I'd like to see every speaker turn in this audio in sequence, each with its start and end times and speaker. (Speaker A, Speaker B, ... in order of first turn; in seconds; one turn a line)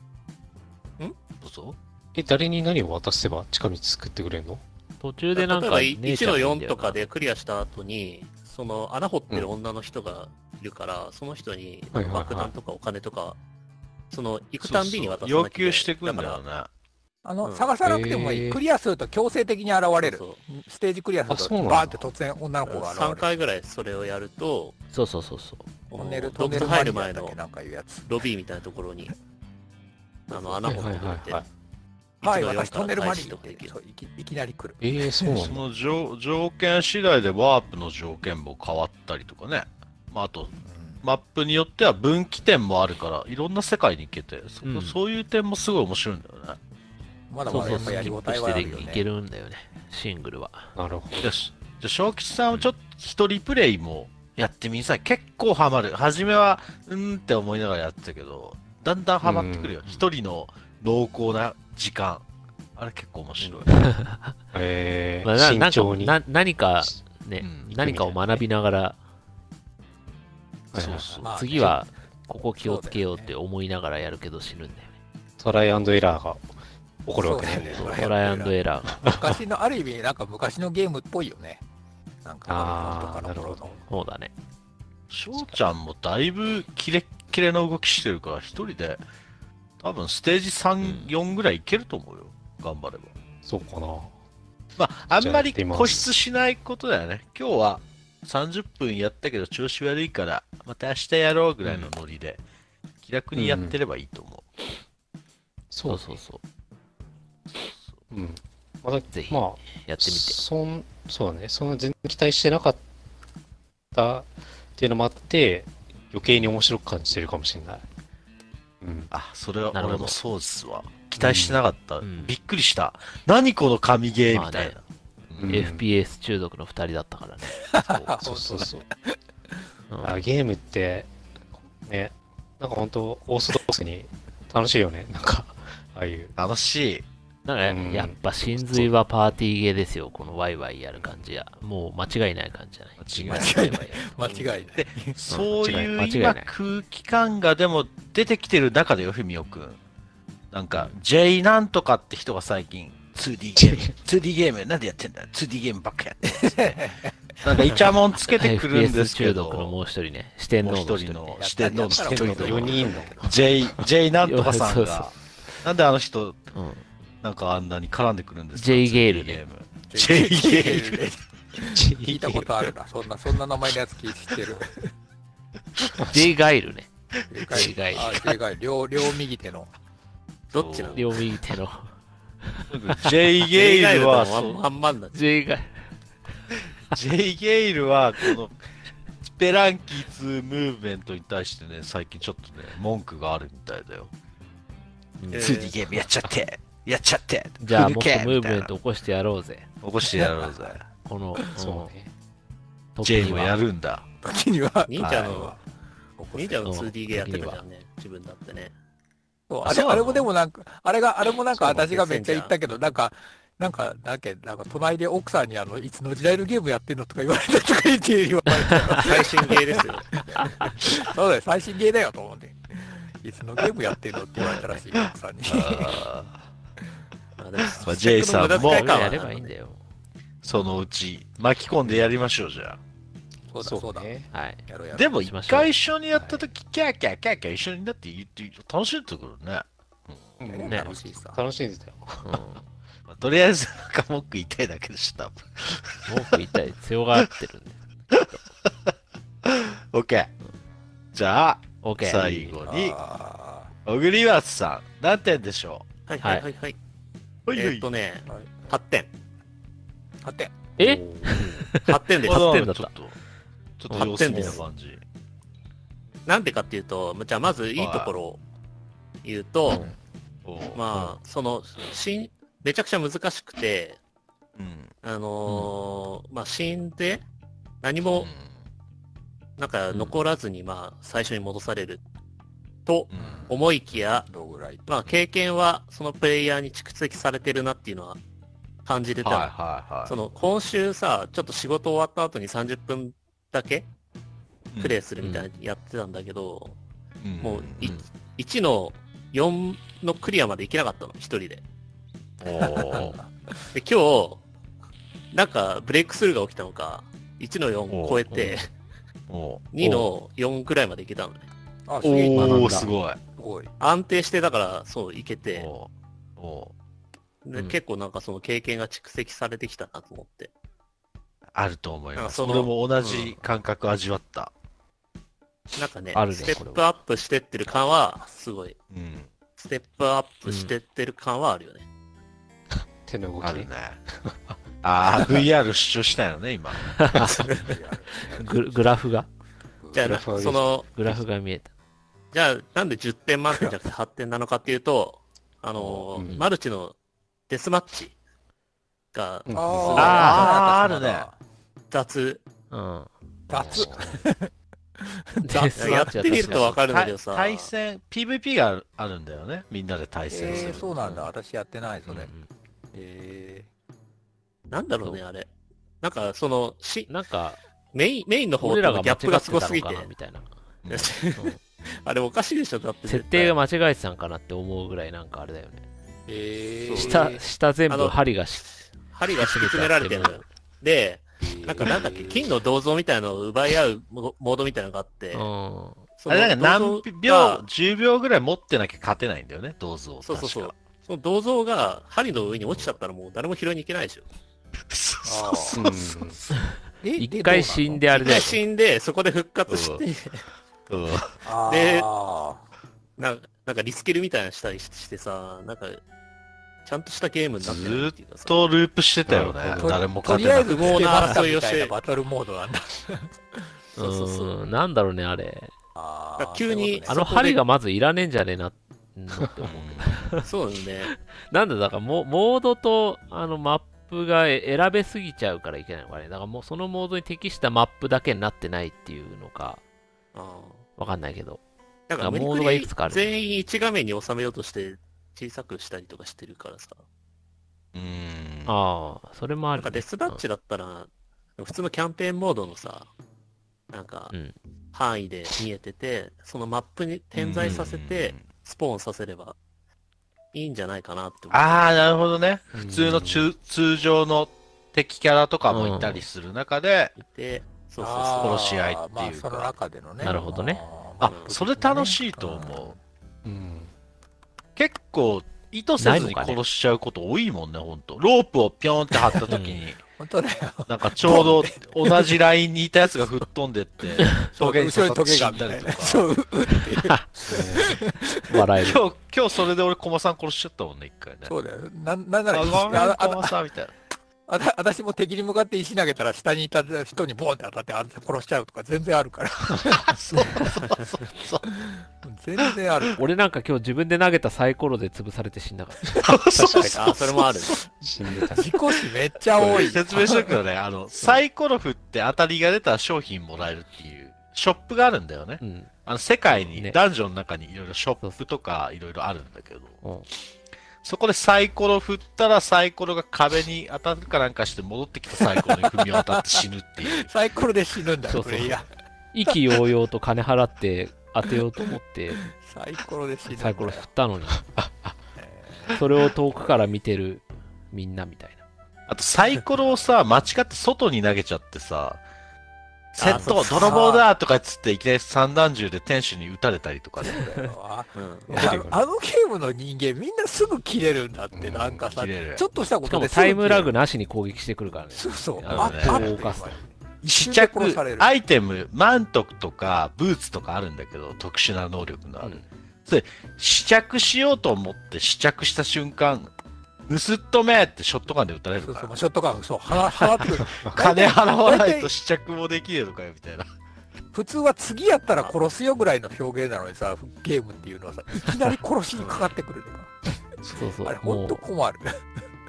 Speaker A: 1.4-1.8
Speaker B: 2.1-4.6
Speaker C: 5.0-7.0
Speaker D: 5.4-13.4
Speaker B: 11.9-12.5
Speaker D: 14.1-16.4
Speaker A: 14.6-16.7
Speaker E: 17.2-23.3
Speaker D: 17.4-17.7
Speaker B: 17.9-18.6
Speaker D: 20.0-20.4
Speaker B: 21.3-22.1
Speaker D: 22.7-24.8
Speaker C: 24.9-25.7
Speaker D: 25.9-27.4
Speaker E: 25.9-28.3
Speaker D: 28.1-29.1
Speaker E: 30.3-30.8
Speaker D: 30.3-31.4
Speaker B: 30.6-31.5
Speaker D: 32.2-33.8
Speaker E: 32.2-35.4
Speaker B: 34.8-35.6
Speaker A: 35.4-46.6
Speaker E: 40.6-41.0
Speaker C: 44.6-45.0
Speaker E: 47.3-49.0
Speaker C: 47.5-50.7
Speaker B: 47.5-48.0
Speaker B: 50.8-51.4
Speaker A: 51.2-62.2
Speaker B: 59.2-59.8
Speaker A: 62.8-63.7
Speaker C: 63.7-64.3
Speaker B: 64.5-66.2
Speaker C: 65.2-69.0
Speaker A: 67.4-67.7
Speaker B: 67.7-68.5
Speaker A: 70.7-71.3
Speaker B: 70.7-71.7
Speaker C: 71.1-75.0
Speaker E: 71.2-71.8
Speaker E: 72.5-73.3
Speaker B: 75.4-76.4
Speaker B: 77.0-78.0
Speaker E: 77.2-81.6
Speaker C: 77.7-79.0
Speaker B: 78.9-79.3
Speaker E: 82.2-83.8
Speaker B: 82.5-83.8
Speaker C: 83.9-84.3
Speaker A: 85.1-89.0
Speaker A: 89.8-93.1
Speaker C: 90.8-91.1
Speaker B: 93.4-94.1
Speaker A: 94.8-102.4
Speaker B: 95.1-96.1
Speaker C: 101.6-101.9
Speaker A: 103.0-104.5
Speaker B: 103.3-103.8
Speaker B: 105.7-106.1
Speaker C: 105.9-106.4
Speaker B: 108.1-112.8
Speaker C: 109.1-110.4
Speaker B: 113.9-117.8
Speaker B: 118.8-119.1
Speaker A: 119.1-125.5
Speaker C: 119.7-120.2
Speaker B: 121.2-121.6
Speaker C: 122.0-122.3
Speaker C: 124.3-124.8
Speaker B: 125.4-125.8
Speaker C: 125.5-128.1
Speaker E: 127.6-129.2
Speaker B: 128.2-128.8
Speaker C: 129.9-130.2
Speaker B: 130.0-131.1
Speaker B: 131.8-136.3
Speaker A: 136.4-137.1
Speaker C: 137.4-144.0
Speaker B: 137.6-138.9
Speaker A: 143.0-143.7
Speaker E: 143.3-145.2
Speaker A: 144.8-149.8
Speaker C: 145.3-146.5
Speaker B: 145.6-146.3
Speaker A: 150.5-156.8
Speaker E: 156.2-157.1
Speaker A: 157.4-159.7
Speaker C: 158.3-161.4
Speaker A: 160.6-166.4
Speaker E: 161.4-163.4
Speaker B: 162.0-163.3
Speaker C: 164.2-165.2
Speaker C: 166.5-166.8
Speaker A: 167.2-171.0
Speaker C: 168.6-169.4
Speaker E: 169.9-174.9
Speaker B: 171.6-172.5
Speaker A: 175.9-176.2
Speaker C: 176.0-176.9
Speaker E: 177.3-179.7
Speaker C: 177.5-178.4
Speaker A: 177.5-178.2
Speaker D: 180.5-181.3
Speaker A: 180.6-181.1
Speaker C: 180.9-181.9
Speaker C: 182.4-183.1
Speaker A: 182.7-184.6
Speaker D: 183.5-185.2
Speaker C: 185.1-185.8
Speaker A: 186.9-188.6
Speaker A: 189.2-194.1
Speaker C: 195.2-195.5
Speaker D: 195.3-195.8
Speaker A: 195.3-198.7
Speaker C: 197.6-199.7
Speaker A: 199.8-200.9
Speaker E: 200.1-200.7
Speaker C: 201.0-201.9
Speaker B: 201.6-202.1
Speaker C: 203.0-203.6
Speaker A: 203.0-204.1
Speaker E: 204.2-205.6
Speaker D: 204.9-205.6
Speaker A: 205.0-205.5
Speaker E: 206.2-206.6
Speaker D: 206.3-208.7
Speaker C: 206.7-207.6
Speaker E: 209.5-226.1
Speaker A: 209.7-210.3
Speaker D: 211.6-212.5
Speaker D: 218.9-220.2
Speaker C: 220.4-220.7
Speaker A: 225.5-226.4
Speaker D: 227.4-229.5
Speaker A: 227.6-229.3
Speaker C: 228.3-229.8
Speaker A: 230.4-232.8
Speaker E: 233.5-234.2
Speaker B: 233.6-234.3
Speaker C: 234.3-235.7
Speaker E: 234.7-235.2
Speaker A: 234.9-240.2
Speaker B: 240.4-242.4
Speaker E: 240.5-241.4
Speaker C: 240.7-240.9
Speaker C: 242.2-242.6
Speaker A: 243.1-246.4
Speaker C: 246.1-248.2
Speaker A: 248.2-248.9
Speaker A: 249.4-250.3
Speaker A: 251.1-253.0
Speaker C: 251.8-252.6
Speaker E: 252.7-253.7
Speaker A: 253.8-255.9
Speaker D: 256.1-256.8
Speaker A: 257.5-257.9
Speaker D: 257.5-259.1
Speaker E: 258.3-258.5
Speaker E: 260.2-260.5
Speaker B: 260.8-261.5
Speaker C: 260.8-262.9
Speaker D: 261.9-262.5
Speaker A: 262.2-263.1
Speaker A: 263.8-265.0
Speaker C: 263.9-264.6
Speaker D: 263.9-264.6
Speaker D: 266.3-268.4
Speaker A: 267.8-268.1
Speaker D: 269.2-269.9
Speaker A: 269.7-269.9
Speaker A: 270.4-271.2
Speaker D: 270.8-274.0
Speaker A: 274.6-274.9
Speaker D: 275.0-277.2
Speaker D: 277.8-278.3
Speaker A: 278.1-278.5
Speaker D: 279.6-282.0
Speaker D: 282.9-284.3
Speaker A: 283.1-283.5
Speaker E: 283.2-283.5
Speaker E: 284.3-284.8
Speaker D: 284.9-288.2
Speaker D: 288.9-293.9
Speaker A: 289.2-290.1
Speaker A: 294.7-295.5
Speaker D: 294.8-296.8
Speaker A: 297.2-298.0
Speaker D: 297.4-301.6
Speaker A: 302.4-303.2
Speaker E: 302.6-303.3
Speaker D: 303.7-304.4
Speaker D: 305.3-308.7
Speaker A: 307.9-308.2
Speaker C: 308.3-308.7
Speaker A: 309.3-310.1
Speaker D: 309.7-311.5
Speaker E: 311.9-313.7
Speaker A: 312.0-313.2
Speaker C: 312.4-312.9
Speaker D: 313.8-315.7
Speaker A: 315.6-316.7
Speaker D: 317.4-320.5
Speaker A: 321.5-324.5
Speaker D: 322.2-323.4
Speaker D: 325.8-328.8
Speaker C: 326.1-326.8
Speaker A: 328.9-329.3
Speaker D: 329.6-331.9
Speaker C: 330.5-330.7
Speaker B: 333.0-334.6
Speaker A: 333.4-334.0
Speaker A: 334.8-336.9
Speaker C: 336.9-339.3
Speaker E: 337.6-338.8
Speaker E: 339.8-340.1
Speaker D: 339.9-340.9
Speaker B: 340.0-341.2
Speaker C: 340.9-341.7
Speaker D: 342.3-347.0
Speaker A: 345.8-346.1
Speaker B: 346.1-346.4
Speaker D: 347.5-348.2
Speaker D: 349.1-350.5
Speaker B: 349.5-350.1
Speaker E: 349.5-351.4
Speaker C: 350.0-350.5
Speaker A: 350.0-351.3
Speaker D: 351.9-352.4
Speaker C: 352.7-354.0
Speaker E: 353.5-356.6
Speaker B: 353.8-354.1
Speaker C: 355.4-356.8
Speaker D: 355.8-357.7
Speaker A: 356.9-360.9
Speaker E: 360.3-362.3
Speaker C: 360.6-361.3
Speaker C: 362.1-362.5
Speaker E: 362.9-363.7
Speaker D: 364.7-365.5
Speaker D: 366.0-367.1
Speaker C: 367.1-367.6
Speaker D: 367.9-370.1
Speaker C: 368.6-370.5
Speaker A: 370.9-371.1
Speaker D: 370.9-373.6
Speaker C: 373.1-375.8
Speaker E: 376.3-377.4
Speaker D: 376.8-378.2
Speaker C: 377.0-378.8
Speaker D: 379.1-385.5
Speaker C: 379.3-380.5
Speaker E: 381.4-382.6
Speaker C: 385.3-386.1
Speaker D: 386.2-387.6
Speaker A: 386.3-390.8
Speaker D: 390.2-394.2
Speaker A: 394.9-396.0
Speaker E: 395.2-395.9
Speaker B: 395.7-396.4
Speaker E: 397.0-398.4
Speaker C: 397.2-398.6
Speaker D: 398.1-400.4
Speaker A: 399.7-400.0
Speaker A: 400.9-401.4
Speaker E: 401.4-402.6
Speaker D: 401.7-402.1
Speaker D: 403.2-406.0
Speaker D: 406.9-408.7
Speaker A: 407.6-411.2
Speaker B: 409.3-410.6
Speaker E: 409.7-413.3
Speaker D: 410.4-411.9
Speaker C: 414.0-415.7
Speaker D: 414.0-414.5
Speaker E: 416.0-417.3
Speaker D: 416.4-417.6
Speaker C: 417.1-420.5
Speaker A: 419.6-420.1
Speaker D: 420.4-421.1
Speaker C: 421.1-429.8
Speaker D: 430.4-430.9
Speaker C: 431.0-431.6
Speaker D: 432.1-437.0
Speaker C: 432.2-433.2
Speaker A: 437.9-438.7
Speaker C: 438.7-440.4
Speaker D: 439.8-443.1
Speaker D: 443.9-444.3
Speaker D: 444.9-449.6
Speaker A: 447.4-448.5
Speaker D: 450.5-451.9
Speaker A: 451.5-457.2
Speaker B: 452.7-453.5
Speaker C: 455.7-456.3
Speaker D: 457.2-458.6
Speaker E: 458.0-463.0
Speaker A: 458.4-459.7
Speaker C: 460.2-460.8
Speaker A: 461.2-463.0
Speaker D: 461.2-461.5
Speaker B: 463.4-463.9
Speaker A: 464.8-470.0
Speaker C: 466.0-466.6
Speaker C: 469.5-469.9
Speaker E: 470.2-472.3
Speaker A: 470.9-476.3
Speaker E: 474.4-478.6
Speaker B: 477.4-478.0
Speaker C: 478.5-479.0
Speaker A: 478.8-481.5
Speaker E: 481.5-483.6
Speaker A: 482.5-483.9
Speaker E: 484.5-490.2
Speaker A: 489.8-491.7
Speaker E: 491.7-493.2
Speaker C: 493.2-496.3
Speaker A: 496.1-497.6
Speaker B: 496.6-497.2
Speaker D: 496.9-497.8
Speaker B: 497.9-498.7
Speaker E: 498.5-500.5
Speaker A: 499.6-510.0
Speaker C: 505.6-505.9
Speaker A: 511.0-517.3
Speaker E: 515.4-518.9
Speaker C: 518.3-518.8
Speaker C: 519.3-522.5
Speaker E: 519.5-519.8
Speaker E: 522.5-524.1
Speaker C: 523.5-524.7
Speaker B: 524.7-525.2
Speaker E: 525.4-526.0
Speaker C: 526.0-528.6
Speaker A: 529.1-532.2
Speaker A: 533.1-537.5
Speaker D: 533.2-534.1
Speaker E: 533.7-534.3
Speaker E: 537.2-543.9
Speaker D: 538.1-538.6
Speaker B: 538.5-539.0
Speaker B: 541.5-542.0
Speaker A: 542.1-542.6
Speaker C: 543.1-546.7
Speaker E: 545.1-548.3
Speaker B: 545.7-546.6
Speaker A: 545.7-546.4
Speaker A: 547.2-556.5
Speaker A: 557.1-559.1
Speaker E: 558.8-562.1
Speaker A: 560.8-563.7
Speaker E: 564.3-570.1
Speaker D: 569.2-569.5
Speaker C: 570.7-571.6
Speaker E: 571.0-572.2